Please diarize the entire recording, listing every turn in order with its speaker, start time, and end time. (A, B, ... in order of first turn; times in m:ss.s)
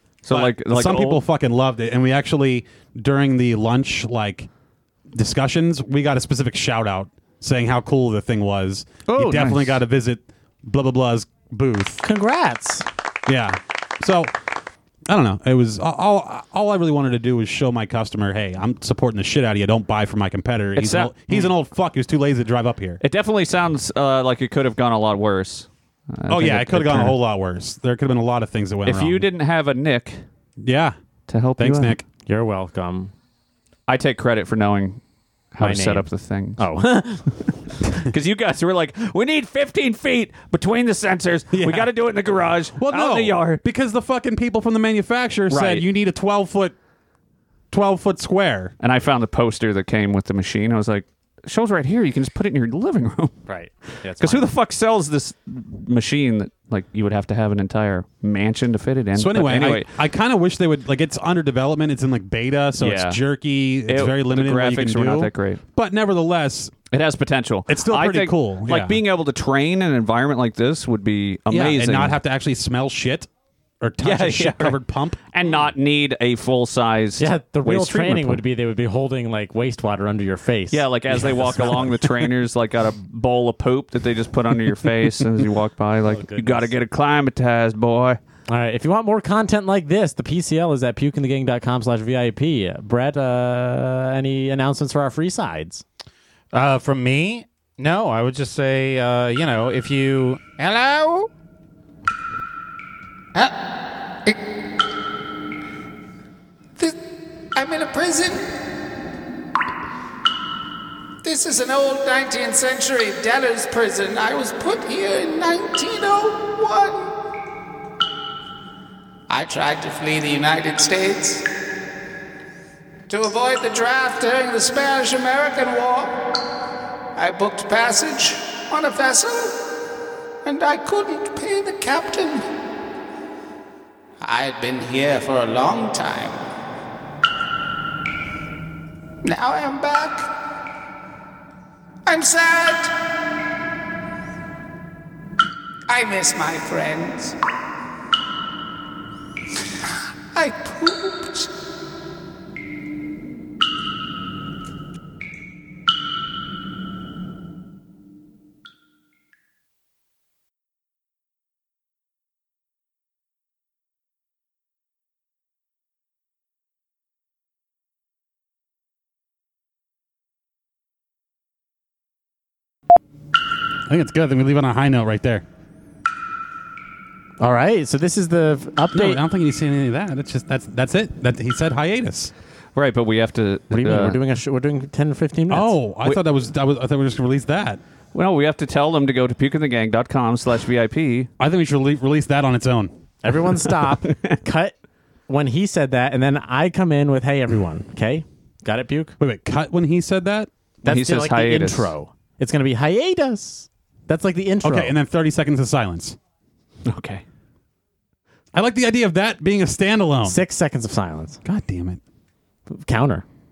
0:00.2-0:01.2 A
0:00.3-0:04.5 B
0:05.1-0:12.0 B
0:09.1-0:09.8 A
0:12.0-0:12.9 C
0:13.3-0:14.4 B
0:15.1-0:23.0 B
0:20.8-0:21.5 A
0:23.0-0:27.2 A
0:26.3-0:29.3 B
0:28.8-0:30.2 A
0:30.6-0:31.0 B
0:31.3-0:32.0 A
0:31.6-0:32.0 B
0:32.3-0:33.1 C
0:33.9-0:35.0 A
0:35.5-0:36.6 A
0:35.6-0:36.1 C
0:36.6-0:37.4 C
0:37.9-0:43.6 A
0:41.5-0:41.9 B
0:42.8-0:46.8 B
0:45.5-0:45.8 A
0:47.7-0:48.7 B
0:48.8-0:53.5 A
0:53.5-0:54.5 C
0:54.0-0:59.9 A
0:59.1-1:06.8 B
1:02.8-1:03.2 A
1:03.9-1:05.6 A
1:06.9-1:12.2 A
1:07.7-1:09.0 B
1:11.5-1:13.3 B
1:13.8-1:15.7 B
1:14.0-1:14.8 A
1:15.3-1:18.4 A
1:17.2-1:22.2 C
1:20.7-1:28.2 A
1:26.1-1:26.7 C
1:28.5-1:35.8 C
1:36.5-1:41.2 D
1:47.5-1:48.4 E
1:51.2-1:57.1 E
1:59.3-2:01.4 E
2:03.1-2:06.2 E
2:07.2-2:09.6 E
2:10.4-2:12.4 E
2:14.2-2:16.4 E
2:19.2-2:20.3 E
2:22.1-2:22.9 E
2:25.9-2:27.4 E
2:29.8-2:31.5 E
2:53.9-2:55.4 B
2:57.4-2:59.2 C
2:58.9-3:02.3 B
3:02.8-3:04.2 A
3:03.7-3:05.8 C
3:05.5-3:07.8 B
3:08.1-3:11.3 A
3:11.4-3:12.9 B
3:13.2-3:14.8 C
3:15.3-3:19.2 C
3:19.2-3:20.5 B
3:20.8-3:25.0 C
3:20.8-3:21.9 A
3:24.6-3:26.2 B
3:26.9-3:27.2 A
3:28.5-3:30.4 B
3:30.2-3:31.4 C
3:31.4-3:32.0 B
3:32.7-3:33.2 C